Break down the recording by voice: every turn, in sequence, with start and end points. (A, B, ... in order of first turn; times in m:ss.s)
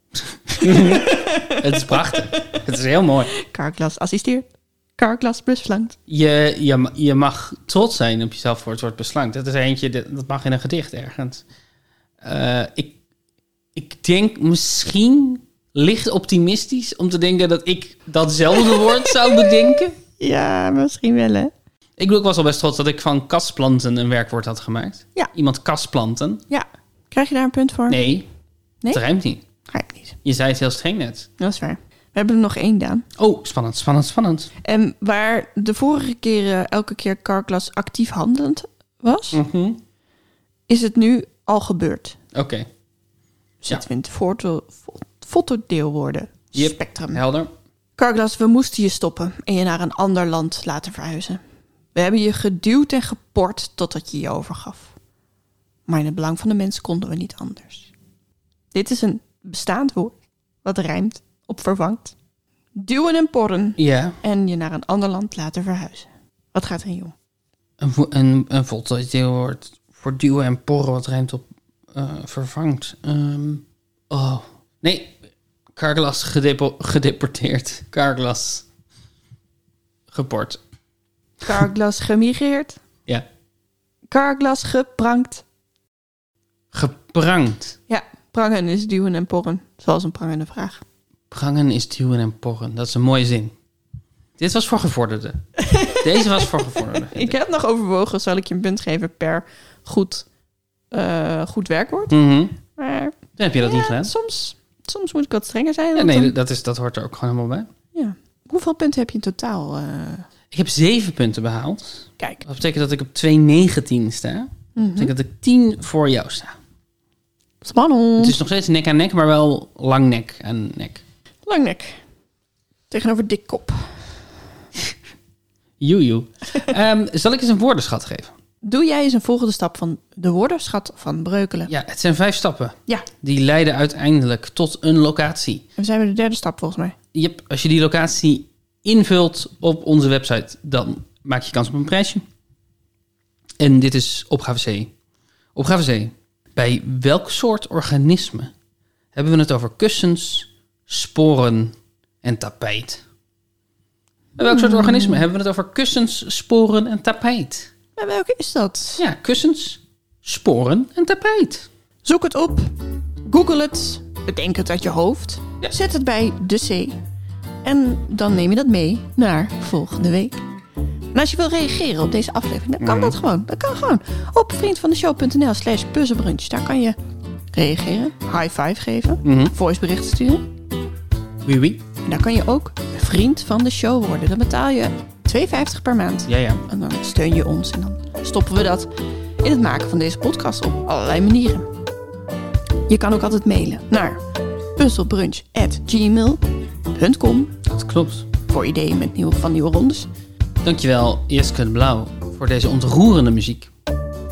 0:00.5-0:02.6 A
0:00.5-0:03.3 B
0:03.3-0:06.0 A
0:06.1-0:11.4 B
0:12.2-0:13.0 B
0:13.8-0:20.0 B
0:18.7-0:19.6 A
0:20.2-0:21.5 A
0:22.0-0:26.4 B
0:26.5-0:28.0 A
0:27.9-0:28.3 B
0:28.9-0:29.4 B
0:29.6-0:30.2 A
0:30.2-0:31.3 B
0:31.4-0:33.0 A
0:33.2-0:34.5 B
0:34.6-0:39.4 A
0:39.3-0:39.8 B
0:40.7-0:42.2 A
0:42.3-0:42.7 B
0:43.6-0:47.2 A
0:46.6-0:47.5 B
0:48.0-0:51.4 A
0:51.9-0:54.9 A
0:55.9-0:57.9 A
0:58.7-1:02.1 A
1:02.7-1:07.1 A
1:03.8-1:04.2 B
1:07.8-1:15.2 B
1:15.8-1:18.6 B
1:20.1-1:20.6 B
1:21.4-1:22.8 A
1:24.1-1:25.4 A
1:26.7-1:27.8 B
1:27.9-1:30.8 A
1:31.3-1:33.5 B
1:34.4-1:37.4 B
1:35.6-1:40.3 A
1:40.9-1:46.3 A
1:42.1-1:42.6 B
1:43.4-1:44.1 B
1:46.0-1:47.7 B
1:47.9-1:50.3 A
1:50.5-1:56.6 B
1:54.8-1:55.1 A
1:57.6-1:58.4 A
1:58.2-2:01.0 B
2:01.4-2:02.0 A
2:02.9-2:03.9 A
2:05.8-2:08.3 B
2:08.6-2:11.7 A
2:11.7-2:15.6 B
2:15.8-2:17.0 A
2:17.1-2:22.2 B
2:23.6-2:24.9 B
2:25.6-2:28.5 B
2:29.1-2:33.0 B
2:34.4-2:37.7 B
2:34.5-2:35.2 A
2:38.0-2:39.0 A
2:39.0-2:41.7 B
2:42.0-2:42.7 A
2:43.3-2:47.0 A
2:47.6-2:50.4 A
2:51.1-2:57.0 A
2:52.8-2:53.2 B
2:57.5-3:00.5 A
2:59.2-2:59.5 B
3:01.4-3:01.8 B
3:02.0-3:11.7 A
3:06.3-3:06.6 B
3:12.9-3:14.2 A
3:14.8-3:17.6 A
3:17.6-3:18.3 B
3:18.5-3:20.1 A
3:20.6-3:23.7 B